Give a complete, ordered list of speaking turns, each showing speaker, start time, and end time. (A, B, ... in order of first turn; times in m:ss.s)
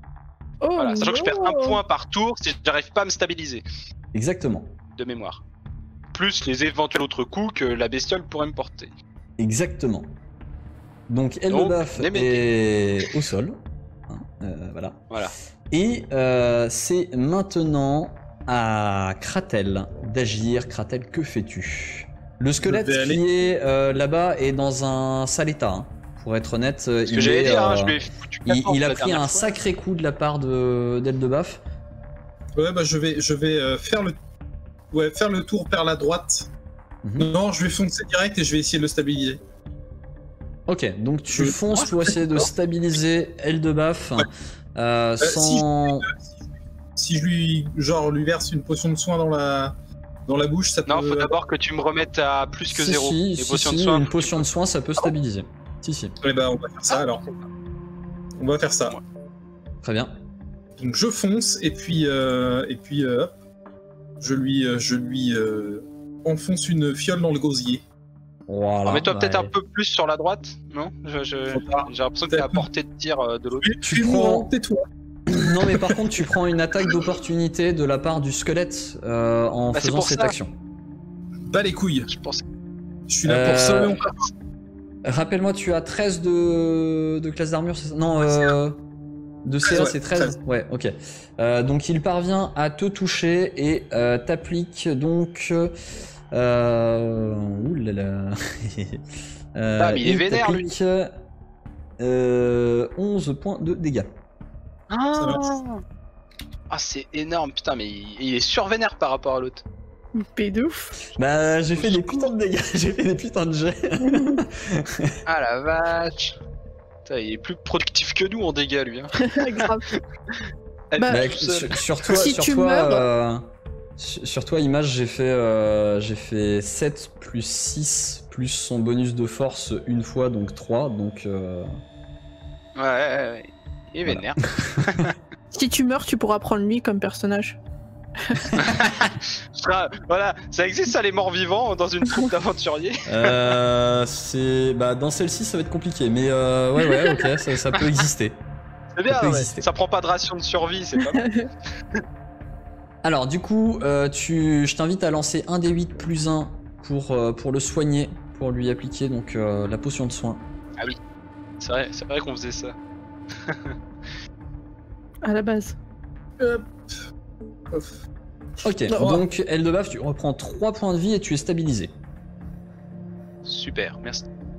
0:00.6-0:01.8 A
0:00.8-0:03.6 B
0:04.1-0:04.7 C
0:05.0-0:05.4 B
0:06.1-0:08.9 B
0:09.4-0:10.1 C
0:11.1-0:13.6 C
0:11.5-0:12.4 B
0:14.1-0:15.0 C
0:15.7-0:31.6 C
0:22.6-0:23.2 D
0:27.1-0:29.5 B
0:32.6-0:34.1 D
0:34.9-0:36.5 D
0:37.0-0:37.3 C
0:37.2-0:39.4 D
0:40.7-0:46.1 C
0:41.3-0:42.1 D
0:41.7-0:42.4 B
0:45.2-0:46.2 D
0:47.0-0:49.7 D
0:50.3-0:51.3 D
0:50.9-0:54.4 B
0:52.7-0:56.1 C
0:56.2-0:57.2 D
0:56.9-0:57.4 B
0:58.4-0:59.0 D
0:59.8-1:00.1 C
1:00.8-1:03.3 D
1:04.2-1:07.8 D
1:08.5-1:09.5 C
1:08.8-1:13.7 B
1:11.5-1:12.6 D
1:13.6-1:14.8 D
1:13.8-1:14.5 C
1:15.3-1:20.5 C
1:15.4-1:16.0 D
1:19.7-1:20.3 B
1:21.5-1:22.1 D
1:22.1-1:22.4 B
1:23.1-1:24.3 D
1:23.2-1:24.0 C
1:25.0-1:28.8 C
1:29.4-1:35.7 C
1:29.6-1:30.4 D
1:36.3-1:39.0 C
1:39.5-1:41.1 C
1:39.8-1:40.7 B
1:42.0-1:44.1 C
1:44.9-1:45.8 B
1:45.2-1:45.5 D
1:46.7-1:49.6 B
1:50.2-1:51.0 A
1:51.2-1:55.1 C
1:51.8-1:52.3 B
1:54.0-1:54.4 A
1:55.2-1:56.4 B
1:57.0-2:01.8 B
1:59.2-1:59.9 A
2:01.0-2:01.3 A
2:01.1-2:11.7 C
2:02.1-2:03.0 A
2:12.8-2:15.1 B
2:14.0-2:15.0 C
2:15.5-2:17.6 A
2:18.2-2:18.8 A
2:18.5-2:23.3 B
2:23.1-2:28.4 C
2:28.9-2:31.3 B
2:29.1-2:29.6 C
2:31.0-2:31.5 A
2:33.0-2:40.4 C
2:41.6-2:42.8 B
2:43.4-2:43.7 B
2:45.2-2:45.8 A
2:46.4-2:46.9 D
2:48.6-2:51.9 C
2:48.9-2:49.2 A
2:49.0-2:49.2 D
2:53.4-2:54.3 B